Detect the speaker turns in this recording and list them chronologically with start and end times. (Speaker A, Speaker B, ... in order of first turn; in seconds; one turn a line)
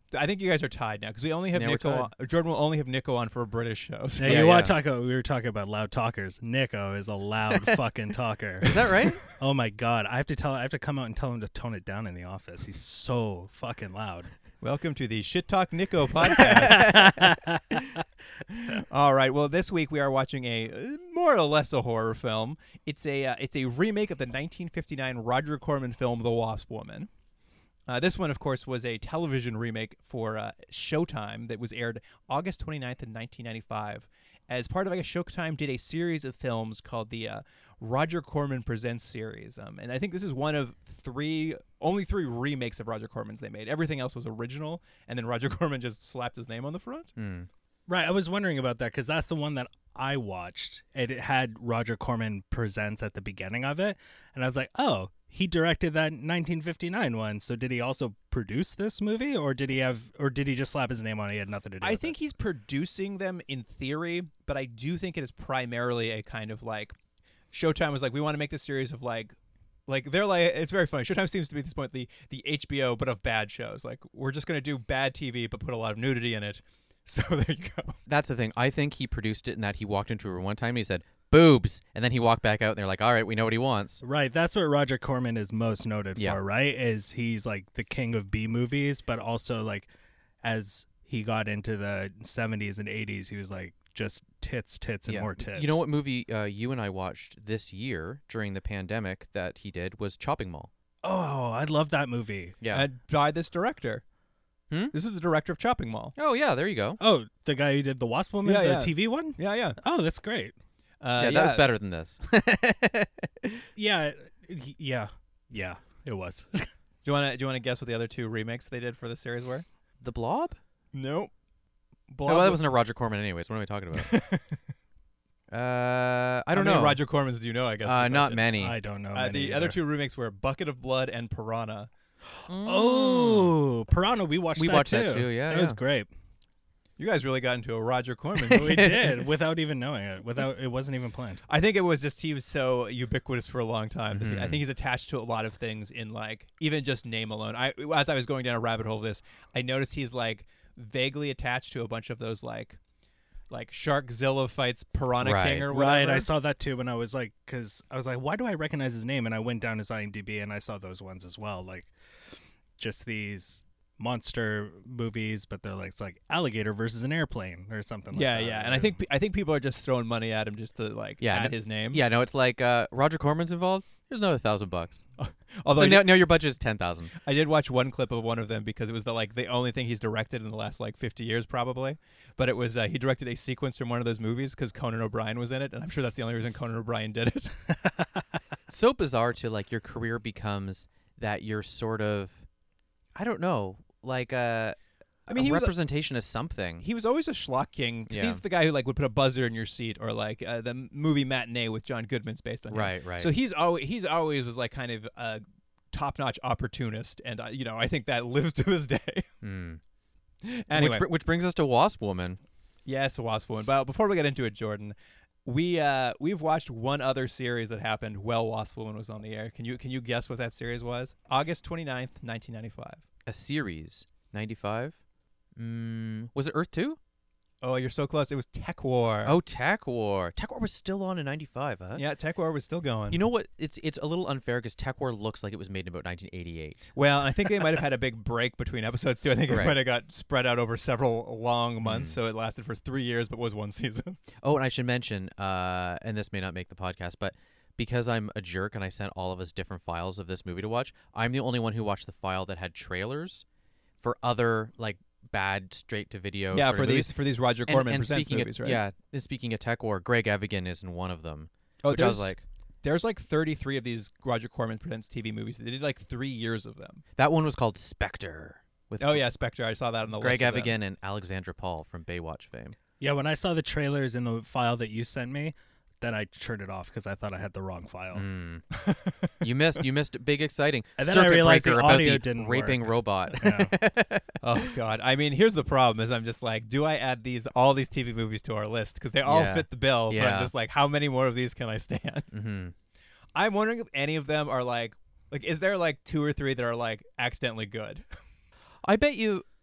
Speaker A: 0.1-4.6
Speaker B: 1.5-2.1
Speaker C: 4.2-8.7
Speaker B: 4.2-4.7
Speaker B: 8.6-9.2
Speaker C: 9.3-14.3
Speaker A: 14.6-17.1
Speaker B: 16.7-17.1
Speaker C: 16.7-17.8
Speaker A: 18.6-27.1
Speaker A: 27.9-47.1
Speaker B: 47.2-47.5
Speaker C: 47.9-62.1
Speaker A: 61.8-67.0
Speaker A: 67.5-69.3
Speaker A: 69.9-78.0
Speaker B: 78.1-84.0
Speaker C: 84.0-89.9
Speaker C: 90.4-95.8
Speaker B: 95.1-100.7
Speaker C: 101.0-102.5
Speaker B: 102.6-102.9
Speaker A: 102.7-104.0
Speaker A: 104.9-106.1
Speaker B: 106.2-107.0
Speaker C: 107.0-110.5
Speaker A: 108.4-109.8
Speaker A: 111.0-111.7
Speaker B: 111.2-113.6
Speaker C: 113.8-116.7
Speaker A: 117.0-119.7
Speaker B: 120.0-120.6
Speaker A: 120.9-121.3
Speaker A: 122.1-122.6
Speaker B: 122.2-124.2
Speaker A: 123.9-124.6
Speaker B: 125.5-127.0
Speaker A: 126.5-128.5
Speaker B: 127.8-128.7
Speaker C: 128.6-129.8
Speaker A: 129.1-131.9
Speaker B: 132.5-133.6
Speaker C: 132.6-136.1
Speaker B: 134.6-135.8
Speaker A: 137.0-139.0
Speaker C: 138.5-141.4
Speaker B: 138.5-139.1
Speaker A: 141.5-152.8
Speaker B: 144.1-144.6
Speaker A: 153.5-156.3
Speaker B: 155.2-155.7
Speaker C: 155.7-161.9
Speaker C: 162.8-168.9
Speaker A: 168.1-172.0
Speaker B: 171.2-175.0
Speaker A: 175.2-176.3
Speaker B: 175.7-177.1
Speaker A: 177.2-187.5
Speaker B: 188.7-192.4
Speaker B: 193.1-194.8
Speaker B: 195.3-196.8
Speaker A: 195.3-195.7
Speaker A: 196.8-209.3
Speaker B: 198.1-198.4
Speaker B: 202.7-203.3
Speaker B: 209.4-209.8
Speaker A: 210.4-211.1
Speaker B: 210.7-212.4
Speaker A: 212.8-223.0
Speaker B: 223.2-224.9
Speaker B: 225.6-227.0
Speaker A: 227.6-229.4
Speaker B: 229.2-232.0
Speaker A: 231.9-233.2
Speaker B: 233.1-236.9
Speaker A: 236.9-244.2
Speaker B: 239.5-239.8
Speaker B: 241.8-242.2
Speaker B: 244.4-253.4
Speaker B: 254.0-257.1
Speaker A: 256.5-258.8
Speaker B: 257.7-262.4
Speaker A: 261.8-267.0
Speaker B: 267.1-269.2
Speaker A: 269.0-270.8
Speaker B: 270.2-272.7
Speaker C: 273.0-278.2
Speaker B: 278.1-278.7
Speaker A: 278.9-279.2
Speaker B: 279.4-284.3
Speaker C: 281.0-283.7
Speaker A: 284.4-292.3
Speaker B: 289.2-290.5
Speaker B: 292.3-292.7
Speaker A: 293.3-298.0
Speaker B: 298.8-299.4